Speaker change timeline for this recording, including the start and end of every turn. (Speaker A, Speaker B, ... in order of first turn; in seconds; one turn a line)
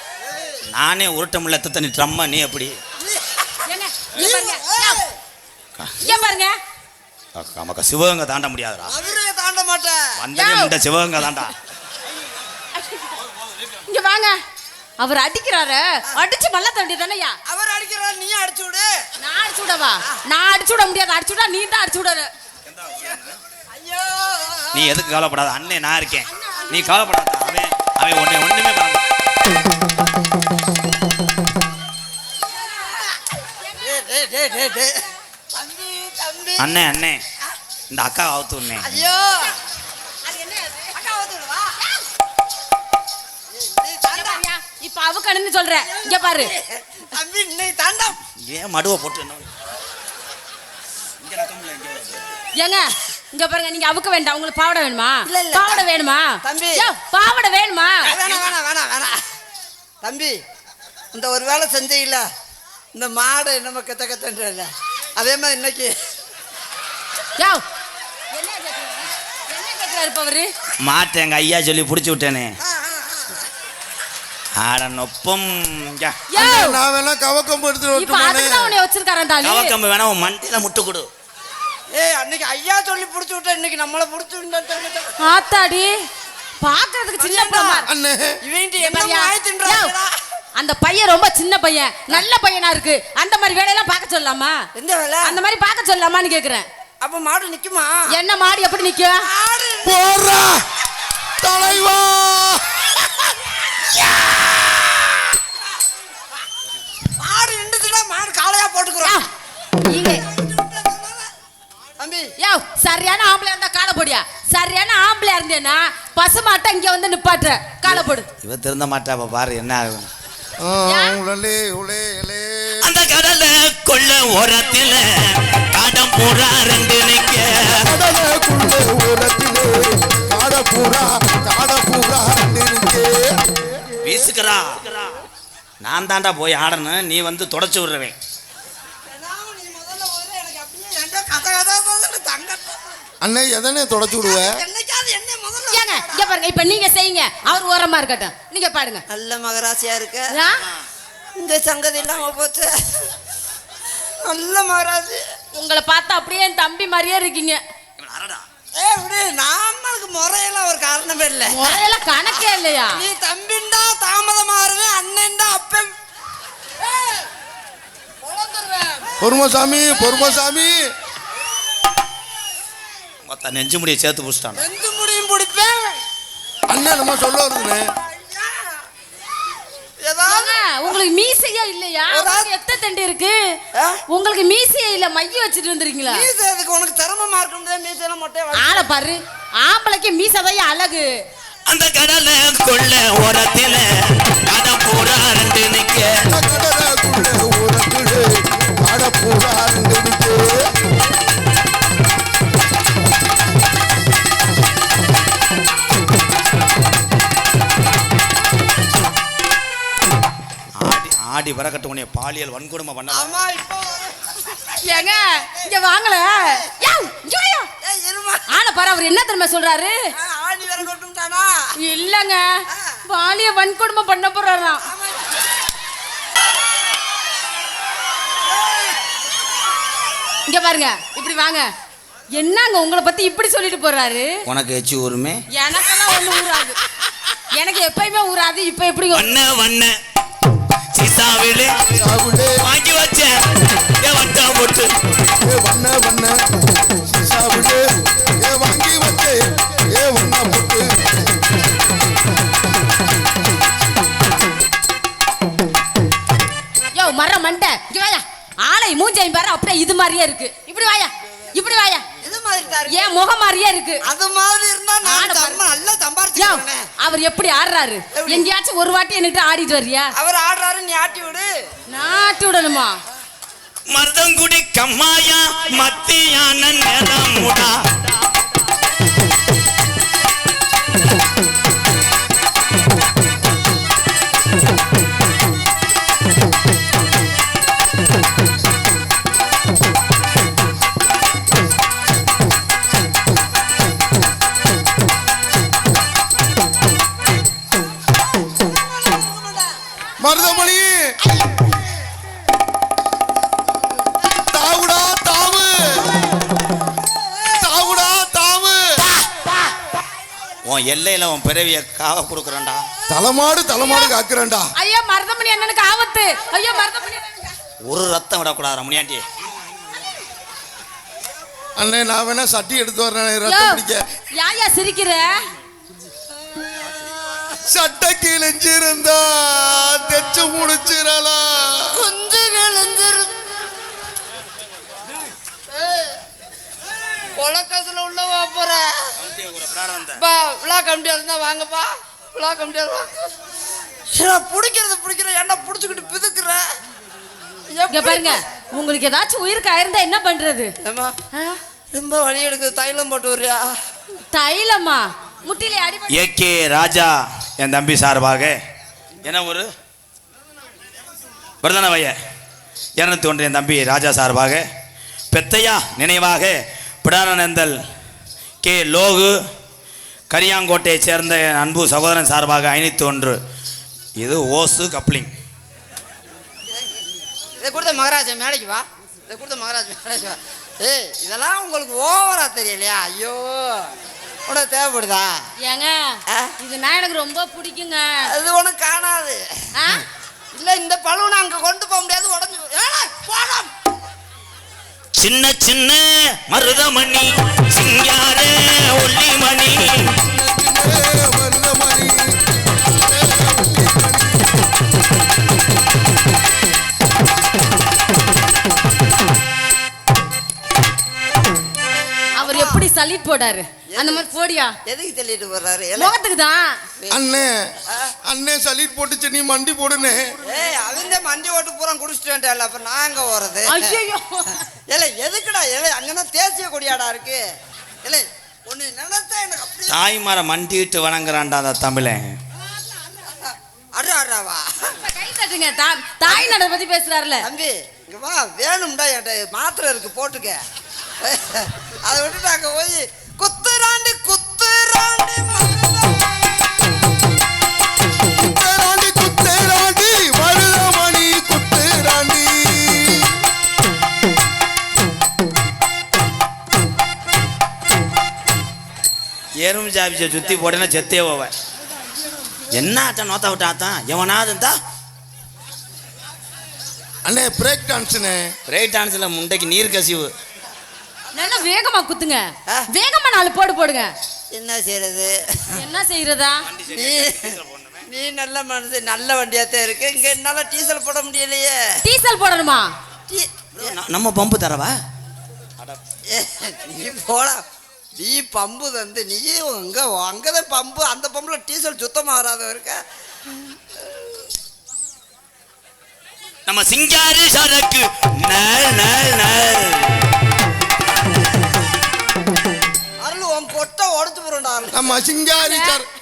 Speaker A: 0.3-0.6
Speaker B: 0.7-2.8
Speaker A: 3.0-3.6
Speaker C: 3.6-5.0
Speaker A: 4.1-5.2
Speaker C: 6.0-6.6
Speaker B: 7.4-8.9
Speaker A: 8.9-10.2
Speaker B: 10.2-11.5
Speaker C: 10.3-10.7
Speaker C: 12.8-13.1
Speaker C: 13.9-14.4
Speaker C: 15.0-17.4
Speaker A: 17.4-19.0
Speaker C: 19.2-22.3
Speaker B: 22.7-23.3
Speaker A: 23.7-24.9
Speaker B: 24.7-29.0
Speaker C: 26.3-26.7
Speaker A: 33.8-36.7
Speaker B: 36.6-37.2
Speaker B: 37.9-38.9
Speaker A: 38.8-39.5
Speaker A: 40.8-41.9
Speaker A: 43.5-44.4
Speaker C: 44.1-46.5
Speaker A: 45.9-48.2
Speaker B: 48.4-49.5
Speaker B: 51.2-52.2
Speaker C: 52.6-58.1
Speaker A: 55.2-55.9
Speaker A: 56.4-56.9
Speaker A: 58.1-59.2
Speaker B: 58.1-58.5
Speaker A: 60.0-60.4
Speaker A: 61.1-62.3
Speaker A: 62.9-65.9
Speaker C: 67.4-67.6
Speaker C: 68.3-70.5
Speaker B: 70.8-72.6
Speaker A: 72.6-73.4
Speaker B: 74.6-76.2
Speaker C: 76.3-76.8
Speaker D: 76.4-78.7
Speaker C: 77.9-79.7
Speaker B: 79.4-81.1
Speaker A: 81.9-85.2
Speaker C: 85.2-86.0
Speaker C: 86.6-87.9
Speaker A: 87.2-87.9
Speaker D: 87.9-88.3
Speaker A: 88.4-90.2
Speaker C: 88.8-89.9
Speaker C: 90.6-94.6
Speaker A: 94.7-95.3
Speaker C: 95.2-96.7
Speaker A: 97.0-98.1
Speaker C: 98.1-99.3
Speaker A: 99.2-99.9
Speaker D: 99.8-100.6
Speaker D: 101.4-102.9
Speaker A: 103.9-104.3
Speaker A: 107.2-109.2
Speaker C: 109.9-110.2
Speaker A: 110.0-111.3
Speaker A: 112.0-112.3
Speaker C: 112.4-118.3
Speaker B: 117.9-120.1
Speaker D: 120.6-122.9
Speaker C: 120.8-121.2
Speaker B: 122.8-127.8
Speaker D: 127.7-133.9
Speaker B: 134.0-135.0
Speaker B: 135.8-138.2
Speaker A: 139.1-143.0
Speaker D: 143.2-144.6
Speaker A: 144.1-146.3
Speaker C: 145.7-149.0
Speaker A: 149.1-150.3
Speaker C: 150.3-150.7
Speaker A: 151.3-153.2
Speaker A: 153.9-155.2
Speaker C: 155.5-157.6
Speaker B: 158.0-158.4
Speaker A: 158.7-161.8
Speaker C: 161.5-163.0
Speaker A: 162.9-165.9
Speaker A: 168.2-169.1
Speaker D: 169.2-170.9
Speaker B: 173.2-174.6
Speaker A: 174.6-176.0
Speaker D: 176.7-177.9
Speaker A: 178.1-178.8
Speaker A: 180.0-181.0
Speaker C: 180.3-183.4
Speaker A: 182.1-182.5
Speaker A: 183.7-184.0
Speaker C: 184.1-186.3
Speaker A: 186.1-188.8
Speaker C: 188.5-191.2
Speaker B: 191.7-196.2
Speaker D: 196.2-200.7
Speaker B: 210.8-213.3
Speaker A: 213.1-214.8
Speaker C: 214.8-217.7
Speaker A: 217.8-218.4
Speaker C: 218.5-219.9
Speaker A: 220.2-221.7
Speaker C: 221.8-224.9
Speaker A: 222.7-223.0
Speaker A: 224.8-225.4
Speaker A: 228.4-229.0
Speaker C: 230.5-231.7
Speaker C: 232.3-234.4
Speaker B: 234.5-235.4
Speaker C: 235.5-236.8
Speaker C: 237.5-239.3
Speaker B: 239.1-239.9
Speaker B: 240.9-241.8
Speaker D: 241.9-242.7
Speaker B: 242.6-243.4
Speaker B: 244.0-244.9
Speaker D: 245.4-246.4
Speaker D: 247.1-251.3
Speaker C: 256.9-262.0
Speaker A: 262.2-263.0
Speaker C: 262.9-264.0
Speaker A: 264.1-266.9
Speaker C: 265.0-265.6
Speaker C: 266.4-270.1
Speaker A: 268.1-268.5
Speaker A: 270.2-271.5
Speaker C: 271.9-273.0
Speaker B: 273.9-277.9
Speaker A: 298.4-299.8
Speaker D: 300.2-301.2
Speaker D: 304.2-306.1
Speaker D: 307.5-309.1
Speaker B: 310.6-312.9
Speaker D: 313.1-314.7
Speaker C: 314.8-317.6
Speaker B: 317.8-319.2
Speaker D: 321.8-324.1
Speaker C: 323.4-323.8
Speaker C: 324.3-325.4
Speaker D: 327.7-332.1
Speaker A: 331.9-333.7
Speaker A: 337.4-339.1
Speaker B: 339.2-340.2
Speaker A: 340.2-343.3
Speaker A: 344.1-346.7
Speaker A: 347.7-348.4
Speaker C: 347.9-350.7
Speaker A: 350.8-351.2
Speaker C: 351.3-351.6
Speaker A: 351.9-353.8
Speaker C: 354.3-356.2
Speaker B: 356.1-358.6
Speaker B: 359.2-359.7
Speaker B: 361.6-362.1
Speaker B: 363.0-364.6
Speaker B: 365.3-367.8
Speaker B: 368.6-369.4
Speaker B: 370.3-373.4
Speaker B: 374.2-375.3
Speaker A: 377.6-383.9
Speaker A: 384.5-385.4
Speaker C: 385.6-388.3
Speaker A: 386.3-386.5
Speaker A: 388.3-389.9
Speaker C: 389.8-390.0
Speaker A: 390.5-393.7
Speaker B: 395.2-400.2
Speaker D: 400.2-404.6
Speaker C: 412.4-414.7
Speaker A: 412.4-412.8
Speaker A: 413.9-414.2
Speaker A: 414.9-416.1
Speaker C: 416.0-416.8
Speaker A: 417.0-418.1
Speaker D: 417.1-417.7
Speaker D: 418.2-420.3
Speaker A: 420.4-424.0
Speaker C: 423.7-424.6
Speaker A: 424.9-427.4
Speaker A: 428.0-430.0
Speaker B: 429.9-432.3
Speaker A: 433.0-434.9
Speaker C: 435.0-437.5
Speaker A: 436.2-436.6
Speaker A: 437.4-440.6
Speaker A: 441.2-446.1
Speaker D: 448.4-453.3
Speaker B: 459.6-461.5
Speaker B: 462.7-464.8
Speaker D: 467.2-468.5
Speaker B: 468.7-470.3
Speaker C: 471.3-474.1
Speaker A: 474.5-475.8
Speaker C: 475.7-476.7
Speaker B: 476.7-478.1
Speaker A: 476.9-477.6
Speaker A: 478.1-482.0
Speaker C: 482.0-482.9
Speaker A: 483.3-483.9
Speaker B: 483.8-484.9
Speaker A: 486.3-487.6
Speaker A: 488.2-493.0
Speaker B: 496.7-500.2
Speaker A: 503.2-505.0
Speaker D: 504.9-506.1
Speaker C: 505.6-506.0